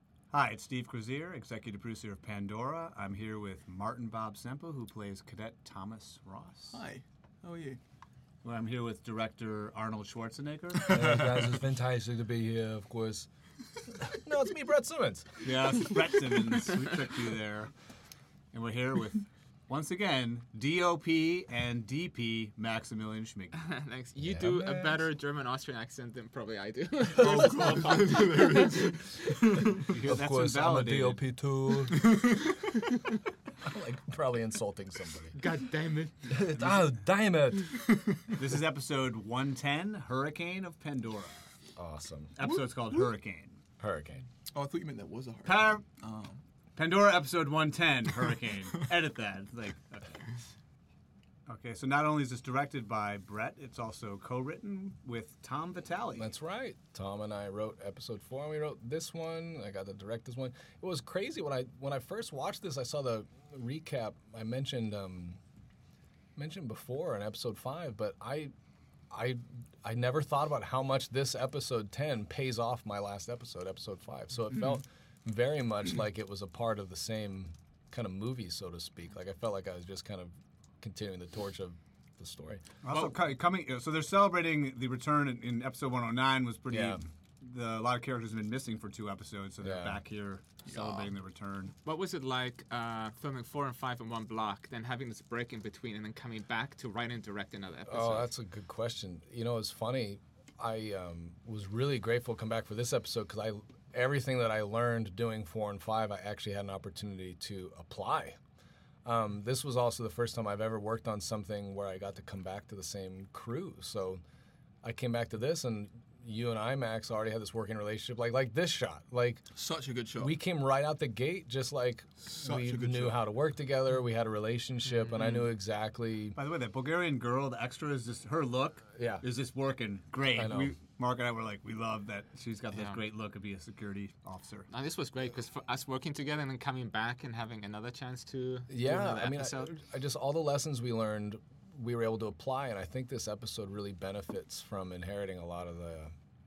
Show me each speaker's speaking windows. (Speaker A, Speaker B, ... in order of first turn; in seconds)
Speaker A: 0.3-6.8, 8.4-11.2, 15.4-17.7, 18.5-23.6, 29.9-31.2, 36.5-36.9, 38.3-41.5, 42.4-43.6, 45.4-45.8, 46.8-50.3, 51.5-56.3, 82.8-91.7, 126.3-134.7
Speaker B: 6.7-7.8, 27.2-29.0, 44.5-46.4, 90.7-91.1, 119.5-120.3, 122.2-123.2
Speaker C: 10.9-13.3, 13.9-15.5, 24.2-25.1, 30.1-32.0, 33.6-35.4, 36.3-38.3, 41.8-42.3, 43.8-44.2, 56.1-65.4, 66.3-68.5, 69.1-82.6, 86.7-87.0, 89.6-90.0, 97.8-108.4, 109.0-114.2, 114.8-119.5, 120.2-126.4, 128.9-129.2, 130.3-130.7, 138.7-146.1
Speaker D: 23.6-29.0, 35.4-36.2, 82.9-83.1, 91.8-98.3, 124.9-125.5, 132.7-133.0, 134.7-139.7